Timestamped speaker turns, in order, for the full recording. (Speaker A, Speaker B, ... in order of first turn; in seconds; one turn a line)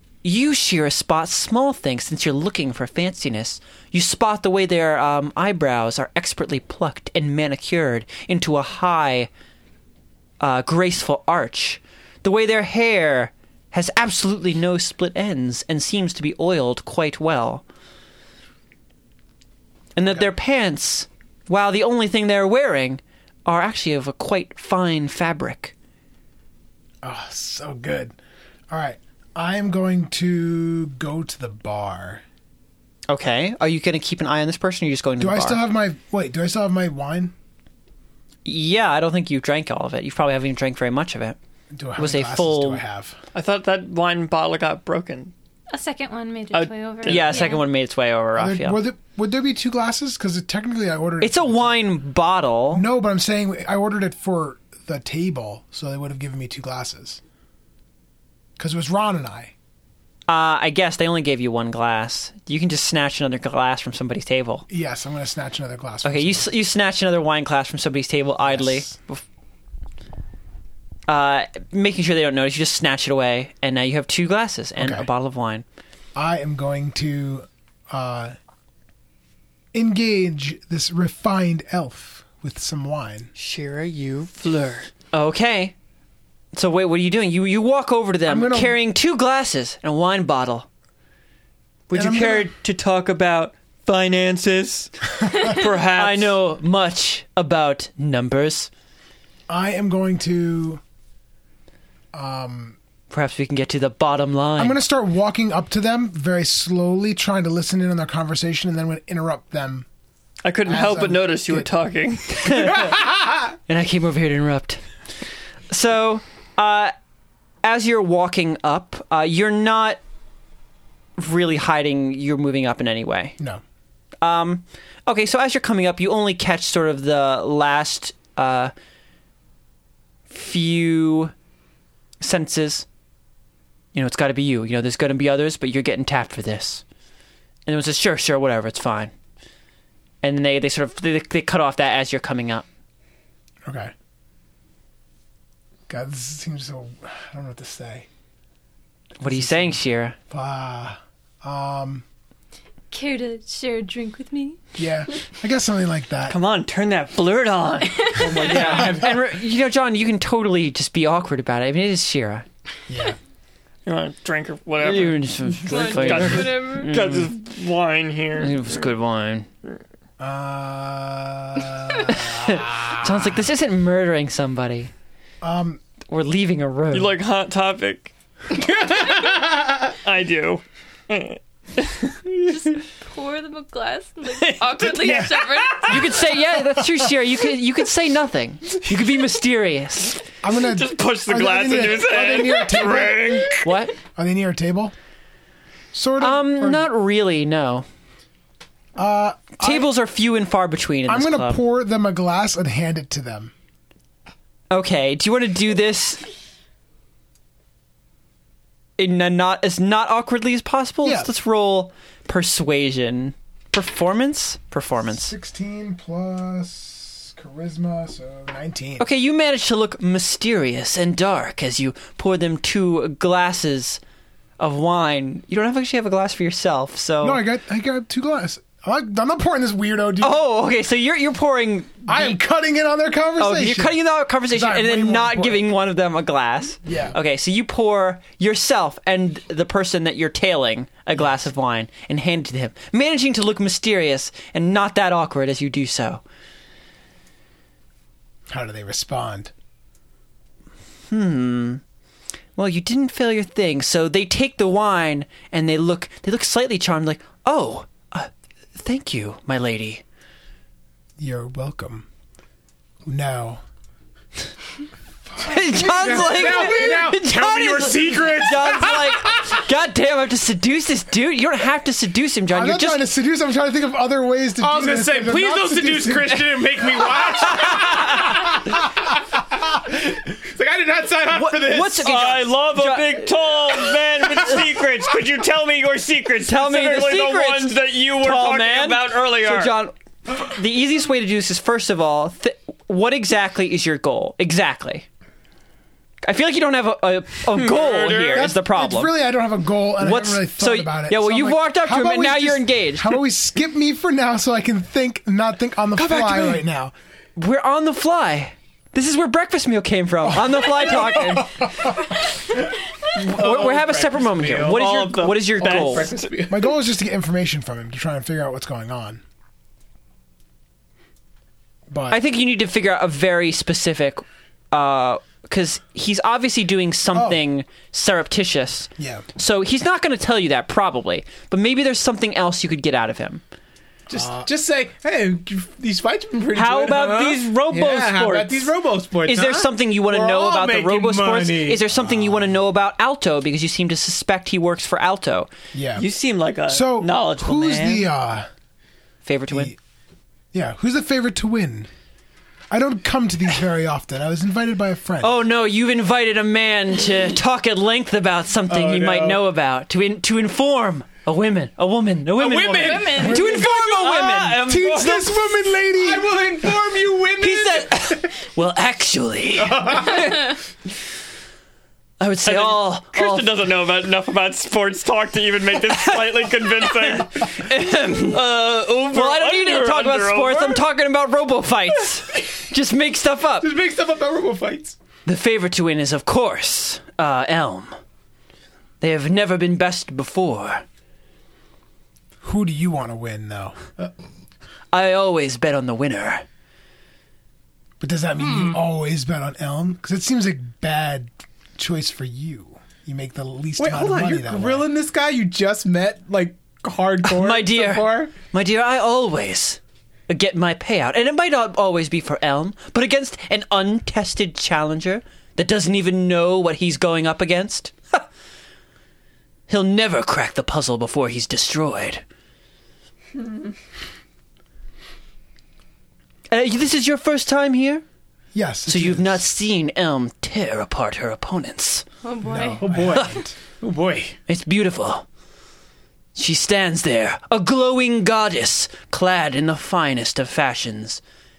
Speaker A: 0.2-9.3
Speaker A: 10.4-17.6
Speaker A: 20.0-25.7
Speaker B: 27.0-28.1
Speaker B: 28.7-32.2
Speaker A: 33.1-35.6
Speaker B: 35.2-37.3
Speaker A: 38.5-41.4
Speaker B: 41.7-43.2
Speaker A: 42.0-42.8
Speaker C: 43.3-45.3
Speaker D: 45.7-47.6
Speaker C: 46.5-47.6
Speaker A: 47.0-48.8
Speaker B: 48.4-51.8
Speaker A: 51.2-52.9
Speaker B: 52.7-57.2
Speaker B: 58.6-59.5
Speaker A: 60.3-64.7
Speaker B: 64.7-66.5
Speaker A: 66.0-69.2
Speaker B: 68.4-69.0
Speaker A: 71.1-75.7
Speaker B: 74.8-75.1
Speaker B: 76.2-78.4
Speaker B: 79.7-83.3
Speaker C: 83.4-84.9
Speaker A: 85.1-85.8
Speaker A: 86.5-90.7
Speaker B: 88.3-88.8
Speaker A: 91.9-92.5
Speaker C: 91.9-96.4
Speaker B: 91.9-92.5
Speaker A: 95.9-98.7
Speaker B: 99.5-100.8
Speaker B: 102.1-102.8
Speaker A: 103.1-104.8
Speaker B: 104.6-109.9
Speaker C: 110.4-112.9
Speaker B: 110.7-111.7
Speaker A: 112.4-112.9
Speaker A: 113.7-114.8
Speaker A: 115.7-116.9
Speaker A: 117.6-120.0
Speaker A: 121.2-123.3
Speaker A: 124.2-128.7
Speaker A: 130.3-131.3
Speaker A: 132.2-132.9
Speaker A: 133.9-136.8
Speaker A: 137.7-139.1
Speaker A: 140.2-142.7
Speaker B: 143.7-143.9
Speaker B: 145.9-148.1
Speaker A: 149.2-150.2
Speaker B: 149.3-149.8
Speaker B: 150.3-152.1
Speaker D: 152.9-154.6
Speaker B: 154.8-156.4
Speaker C: 156.3-158.9
Speaker E: 158.2-159.1
Speaker A: 158.4-162.5
Speaker B: 162.9-163.2
Speaker C: 163.9-168.6
Speaker A: 164.8-167.3
Speaker D: 165.7-167.0
Speaker A: 168.4-169.5
Speaker B: 170.2-173.1
Speaker A: 172.1-174.9
Speaker B: 175.4-175.8
Speaker A: 176.1-177.2
Speaker C: 176.9-178.1
Speaker E: 178.5-179.9
Speaker C: 180.0-182.4
Speaker D: 182.4-186.2
Speaker C: 184.4-185.3
Speaker B: 184.8-185.9
Speaker A: 185.9-190.2
Speaker B: 190.4-194.9
Speaker C: 190.6-193.6
Speaker A: 193.6-193.9
Speaker B: 195.9-196.9
Speaker A: 196.2-197.9
Speaker B: 199.0-199.9
Speaker A: 199.6-201.6
Speaker B: 201.1-203.5
Speaker A: 204.7-206.2
Speaker A: 209.0-215.3
Speaker B: 211.0-211.3
Speaker B: 215.1-219.1
Speaker A: 219.0-224.0
Speaker A: 224.6-227.4
Speaker B: 227.2-230.4
Speaker A: 230.2-232.4
Speaker B: 232.1-235.7
Speaker A: 233.4-246.2
Speaker B: 236.8-237.2
Speaker B: 248.5-249.5
Speaker A: 251.1-251.8
Speaker A: 252.6-260.0
Speaker B: 261.2-262.1
Speaker B: 263.1-263.6
Speaker B: 265.3-267.1
Speaker A: 265.4-273.0
Speaker E: 265.9-269.6
Speaker B: 272.5-276.5
Speaker E: 274.6-279.2
Speaker A: 277.2-278.4
Speaker E: 279.8-282.1
Speaker A: 281.3-283.6
Speaker C: 282.1-289.8
Speaker A: 284.3-284.6
Speaker A: 286.4-295.1
Speaker A: 296.2-299.1
Speaker C: 297.5-298.6
Speaker B: 298.3-306.9
Speaker A: 300.0-303.2
Speaker A: 306.0-306.6
Speaker A: 307.4-311.6
Speaker B: 310.3-312.0
Speaker A: 313.1-316.1
Speaker E: 313.2-315.1
Speaker C: 314.6-316.3
Speaker E: 315.6-316.7
Speaker B: 316.5-319.2
Speaker B: 321.9-322.2
Speaker A: 322.1-333.4
Speaker B: 327.1-327.4
Speaker B: 329.0-329.3
Speaker B: 334.1-334.5
Speaker E: 334.1-341.9
Speaker A: 336.5-338.7
Speaker A: 339.2-345.5
Speaker B: 341.9-342.6
Speaker B: 345.7-346.1
Speaker C: 346.0-348.1
Speaker B: 346.7-348.5
Speaker A: 349.2-349.7
Speaker B: 349.5-349.8
Speaker B: 350.5-351.9
Speaker B: 352.7-355.4
Speaker A: 355.2-364.6
Speaker E: 358.7-359.4
Speaker E: 362.4-363.4
Speaker D: 362.8-363.5
Speaker B: 363.2-363.6
Speaker C: 363.4-365.6
Speaker B: 364.6-366.4
Speaker E: 366.0-368.3
Speaker A: 367.4-370.6
Speaker E: 369.6-370.5
Speaker A: 372.2-373.5
Speaker C: 372.4-380.8
Speaker A: 375.9-378.5
Speaker A: 379.1-383.8
Speaker E: 383.6-385.0
Speaker A: 385.2-388.0
Speaker A: 389.0-390.8
Speaker B: 392.4-393.8
Speaker A: 394.9-396.4
Speaker B: 398.0-404.9
Speaker E: 398.4-398.8
Speaker E: 403.8-408.3
Speaker A: 407.2-418.3
Speaker A: 419.7-422.2
Speaker A: 426.5-428.0
Speaker B: 428.5-429.4
Speaker A: 428.9-432.1
Speaker D: 432.2-432.9
Speaker B: 432.4-433.5
Speaker E: 432.8-434.4
Speaker A: 434.5-435.3
Speaker A: 436.4-441.2